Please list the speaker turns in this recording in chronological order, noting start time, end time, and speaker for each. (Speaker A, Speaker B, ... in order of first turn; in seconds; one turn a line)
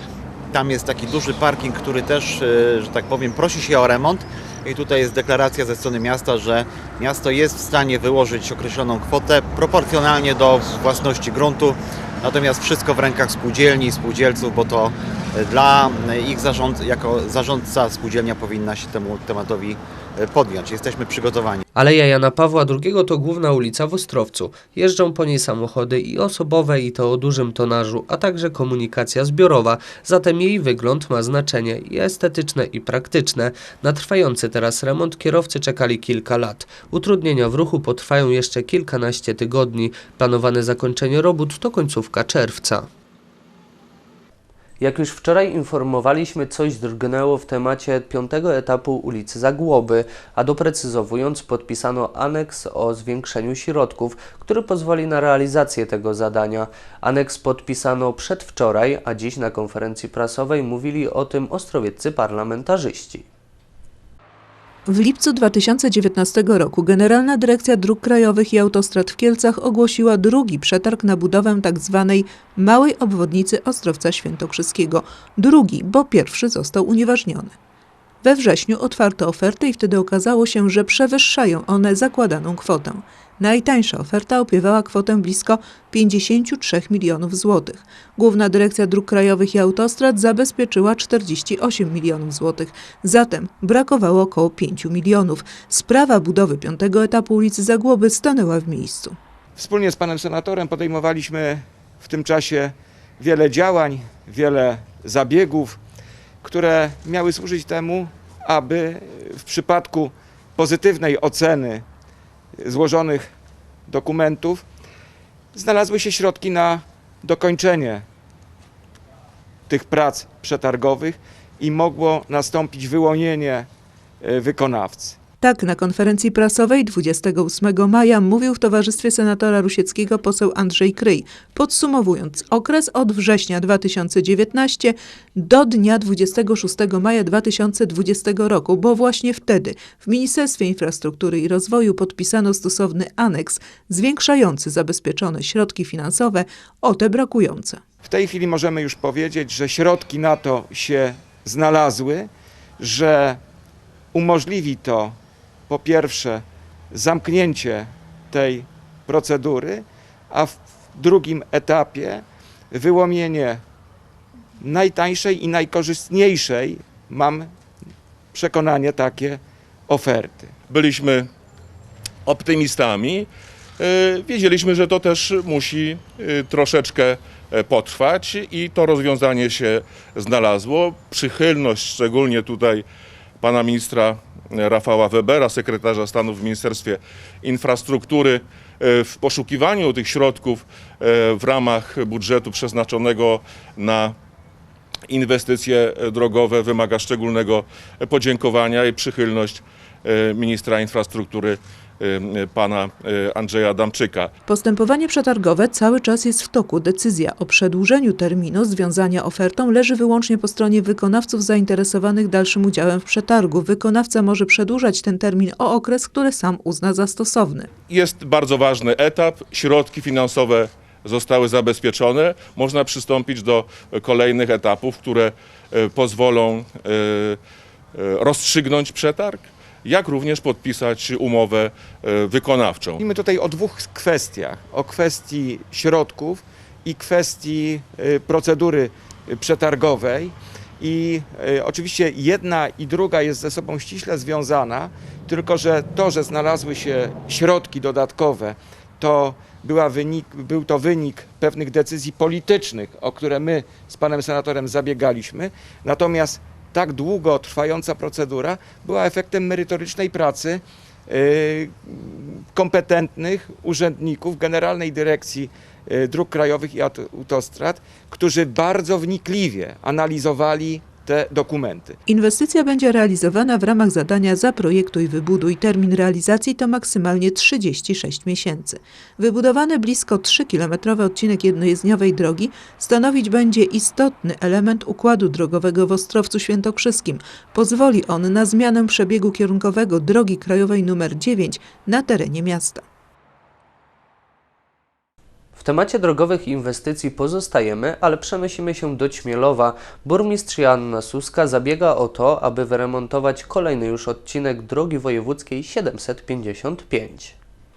Speaker A: 0.5-21.6
Speaker B: 21.7-42.9
Speaker B: 44.8-63.3
Speaker C: 64.9-77.5
Speaker C: 78.2-99.2
Speaker D: 99.5-105.8
Speaker D: 106.4-111.8
Speaker D: 112.6-113.3
Speaker D: 113.9-114.6
Speaker D: 115.5-118.0
Speaker D: 119.7-123.7
Speaker D: 124.2-125.2
Speaker C: 125.4-147.8
Speaker D: 148.0-152.3
Speaker D: 152.8-153.4
Speaker D: 154.1-155.1
Speaker D: 155.7-163.6
Speaker D: 164.6-167.5
Speaker D: 168.3-170.5
Speaker E: 170.7-171.3
Speaker E: 172.2-173.3
Speaker E: 173.8-182.8
Speaker E: 183.4-194.1
Speaker E: 195.1-204.3
Speaker C: 204.5-217.7
Speaker E: 217.9-227.4
Speaker E: 227.9-233.0
Speaker D: 233.0-272.0
Speaker C: 272.1-292.8
Speaker B: 295.6-307.3